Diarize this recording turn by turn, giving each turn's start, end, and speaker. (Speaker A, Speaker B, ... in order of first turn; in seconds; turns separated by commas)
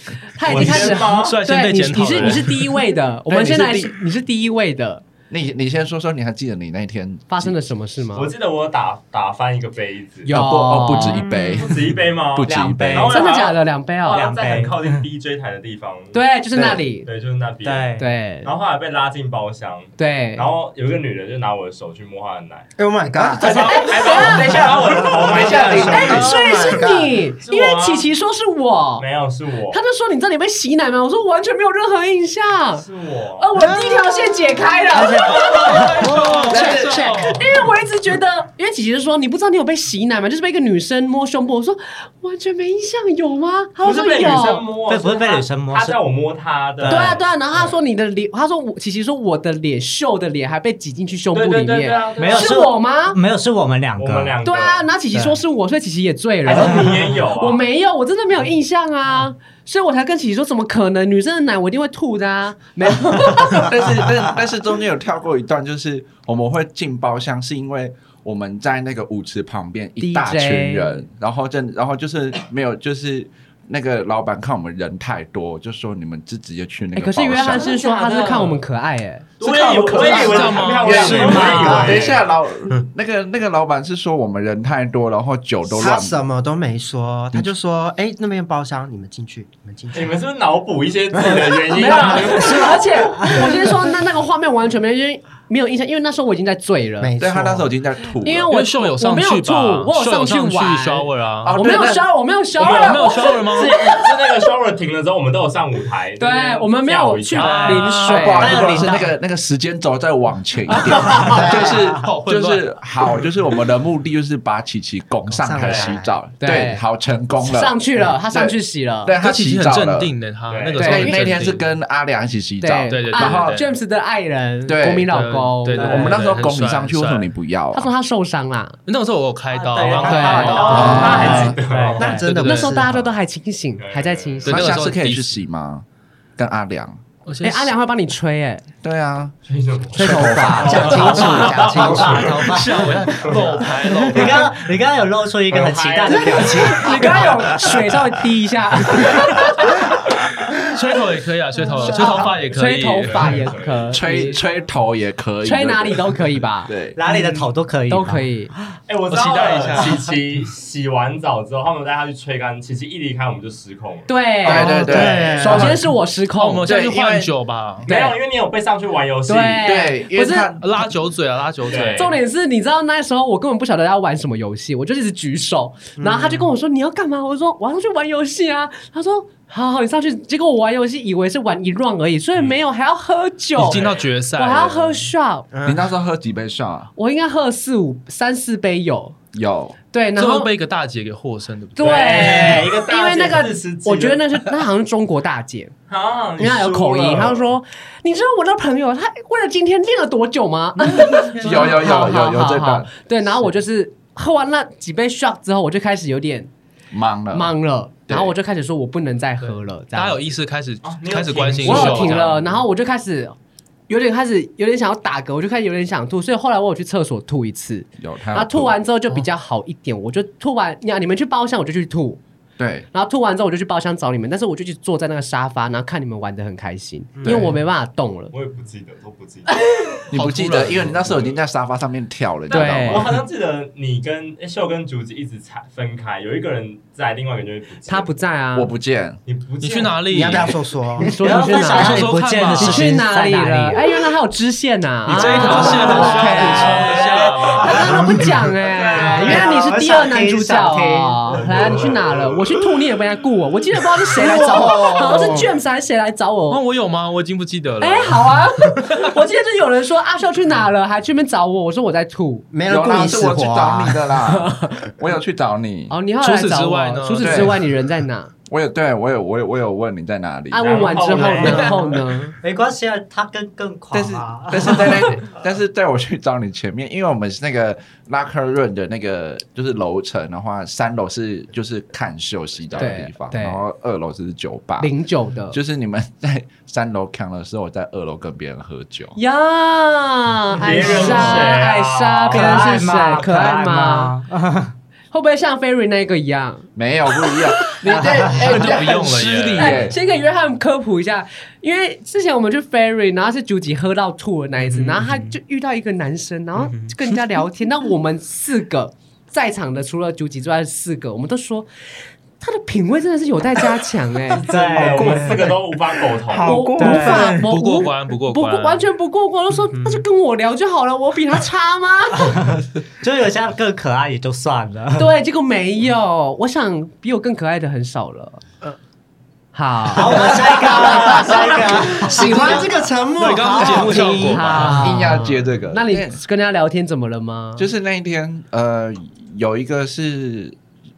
Speaker A: 0.3-5.0, Speaker B: 0.4-1.4, Speaker C: 0.5-2.8, Speaker D: 3.3-3.9, Speaker D: 5.3-7.5, Speaker A: 7.3-8.3, Speaker B: 8.1-10.3, Speaker A: 10.2-11.2, Speaker D: 10.3-13.1, Speaker E: 10.9-11.7, Speaker B: 11.5-16.2, Speaker E: 12.4-13.3, Speaker A: 13.1-14.2, Speaker E: 14.1-15.0, Speaker A: 16.1-17.1, Speaker D: 16.5-16.8, Speaker B: 17.0-22.7, Speaker E: 17.6-18.1, Speaker A: 18.0-18.5, Speaker A: 20.0-20.5, Speaker F: 22.8-23.5, Speaker D: 23.2-26.2, Speaker B: 23.4-26.4, Speaker A: 23.4-24.7, Speaker F: 25.5-27.1, Speaker A: 25.5-29.0, Speaker B: 27.4-28.1, Speaker B: 29.0-29.8, Speaker A: 29.7-32.9, Speaker B: 32.7-33.5, Speaker A: 33.4-35.9, Speaker F: 33.6-37.4, Speaker C: 35.4-37.4, Speaker D: 36.4-37.1, Speaker A: 37.1-44.7, Speaker B: 43.8-47.7, Speaker E: 44.9-46.0, Speaker E: 46.8-47.2, Speaker A: 46.9-53.2, Speaker B: 51.3-52.6, Speaker E: 52.1-54.4, Speaker B: 54.0-54.9, Speaker A: 54.4-63.8, Speaker E: 55.1-55.4, Speaker B: 56.4-57.6, Speaker D: 63.4-77.7, Speaker A: 70.0-71.0, Speaker A: 76.9-79.3, Speaker B: 77.5-78.6, Speaker B: 79.4-82.8, Speaker C: 79.4-81.8, Speaker F: 79.4-82.0, Speaker D: 79.8-80.3, Speaker D: 80.8-86.2, Speaker E: 81.1-81.9, Speaker F: 85.7-90.2, Speaker B: 89.9-92.9, Speaker A: 91.7-97.1, Speaker F: 97.0-97.7, Speaker D: 97.2-98.5, Speaker A: 98.2-104.3, Speaker C: 98.5-101.6, Speaker D: 101.4-102.1, Speaker B: 102.6-108.1, Speaker C: 102.6-103.7, Speaker A: 106.2-108.8, Speaker C: 107.3-108.8, Speaker D: 108.1-117.8, Speaker E: 108.3-109.1, Speaker F: 111.1-112.0, Speaker C: 112.0-112.7, Speaker F: 115.3-116.1, Speaker B: 115.6-115.9, Speaker A: 116.4-116.8, Speaker A: 117.4-119.1, Speaker D: 118.3-120.1, Speaker C: 119.2-121.7, Speaker B: 120.5-121.0, Speaker A: 120.8-121.2, Speaker D: 120.8-123.6, Speaker A: 122.6-126.1, Speaker C: 122.9-123.7, Speaker D: 124.7-127.9, Speaker C: 125.1-127.3, Speaker E: 125.8-126.1, Speaker A: 127.7-128.8, Speaker C: 128.8-132.7, Speaker E: 129.5-132.4, Speaker F: 130.1-130.7, Speaker A: 130.1-130.9, Speaker B: 130.6-132.1, Speaker D: 130.7-131.6, Speaker F: 131.4-132.9, Speaker A: 132.4-134.6, Speaker B: 133.8-134.7, Speaker D: 134.4-135.8, Speaker C: 134.4-135.4, Speaker D: 136.4-137.0, Speaker C: 137.2-137.7, Speaker A: 137.4-138.6, Speaker D: 138.8-139.3, Speaker B: 139.4-141.4, Speaker A: 139.9-141.3, Speaker D: 139.9-141.6, Speaker F: 140.6-142.5, Speaker C: 140.7-144.5, Speaker E: 141.2-147.6, Speaker B: 143.1-143.6, Speaker B: 145.5-147.9, Speaker A: 146.7-150.3, Speaker C: 150.6-153.4, Speaker A: 151.8-154.4, Speaker B: 153.0-154.0, Speaker D: 153.9-157.0, Speaker A: 155.4-158.5, Speaker E: 156.9-158.7, Speaker B: 158.9-164.1, Speaker C: 159.1-160.0, Speaker A: 164.1-166.7, Speaker D: 164.4-165.8, Speaker F: 164.6-165.8, Speaker E: 165.0-165.3, Speaker C: 165.2-165.8, Speaker C: 166.3-167.9, Speaker D: 166.6-167.3, Speaker A: 167.8-168.2, Speaker B: 167.8-169.7, Speaker A: 169.3-170.5, Speaker D: 169.6-170.9, Speaker C: 170.6-172.2, Speaker B: 171.6-172.1, Speaker A: 172.0-185.4, Speaker F: 176.0-176.5, Speaker C: 183.6-185.1, Speaker B: 183.6-184.1, Speaker F: 185.5-185.8, Speaker D: 185.6-186.9, Speaker A: 186.9-189.1, Speaker D: 189.3-189.8, Speaker A: 189.9-190.5, Speaker C: 190.2-192.6, Speaker A: 191.8-195.7, Speaker B: 191.8-194.2, Speaker B: 195.9-197.5, Speaker A: 196.4-206.5, Speaker C: 200.8-201.9, Speaker D: 201.3-202.9, Speaker D: 206.9-207.5, Speaker A: 207.3-210.2, Speaker C: 209.4-212.2, Speaker B: 210.8-212.5, Speaker A: 211.6-213.3, Speaker A: 213.9-222.2, Speaker D: 218.0-218.8, Speaker D: 222.6-222.9, Speaker A: 222.9-228.3, Speaker F: 227.2-227.4, Speaker D: 227.2-227.5, Speaker B: 228.3-229.5, Speaker A: 229.5-229.9, Speaker D: 230.1-233.2, Speaker C: 230.1-231.1, Speaker B: 230.9-231.2, Speaker A: 232.5-233.2, Speaker B: 232.5-238.1, Speaker A: 237.8-238.7, Speaker D: 238.5-239.2, Speaker B: 239.2-240.5, Speaker C: 239.6-240.6, Speaker F: 240.1-241.2, Speaker A: 241.0-256.6, Speaker E: 241.2-243.8, Speaker C: 241.3-242.9, Speaker C: 245.1-247.9, Speaker E: 245.1-247.8, Speaker F: 245.2-246.7, Speaker B: 246.8-247.8, Speaker B: 248.6-249.7, Speaker E: 249.0-251.2, Speaker B: 251.3-252.6, Speaker F: 254.1-255.5, Speaker C: 256.5-259.1, Speaker A: 257.8-262.5, Speaker F: 262.5-264.1, Speaker D: 262.7-265.9, Speaker A: 264.3-264.9, Speaker A: 265.9-268.3, Speaker C: 266.2-267.6, Speaker D: 267.2-267.6, Speaker D: 268.5-270.8, Speaker A: 270.5-272.4, Speaker B: 270.6-272.0, Speaker E: 272.4-275.1, Speaker D: 273.9-284.9, Speaker A: 282.8-283.6, Speaker A: 284.8-285.6, Speaker D: 285.5-289.2, Speaker A: 289.1-294.1, Speaker B: 290.6-292.6, Speaker E: 290.8-291.5, Speaker E: 292.3-294.7, Speaker A: 295.1-296.7, Speaker D: 296.8-299.9, Speaker E: 297.9-298.6, Speaker A: 297.9-298.7, Speaker C: 298.4-299.9, Speaker A: 299.6-311.7, Speaker A: 312.4-314.4, Speaker B: 314.3-316.6, Speaker E: 314.4-315.5, Speaker F: 314.7-315.6, Speaker F: 316.1-317.5, Speaker A: 316.4-322.6, Speaker E: 316.8-317.4, Speaker C: 317.4-318.9, Speaker E: 322.3-325.1, Speaker A: 324.9-328.4, Speaker A: 329.5-331.5, Speaker E: 329.9-332.7, Speaker F: 330.4-334.8, Speaker C: 332.3-332.6, Speaker C: 333.2-334.9, Speaker E: 333.6-335.1, Speaker A: 334.2-337.7, Speaker D: 334.8-336.2, Speaker D: 337.6-340.6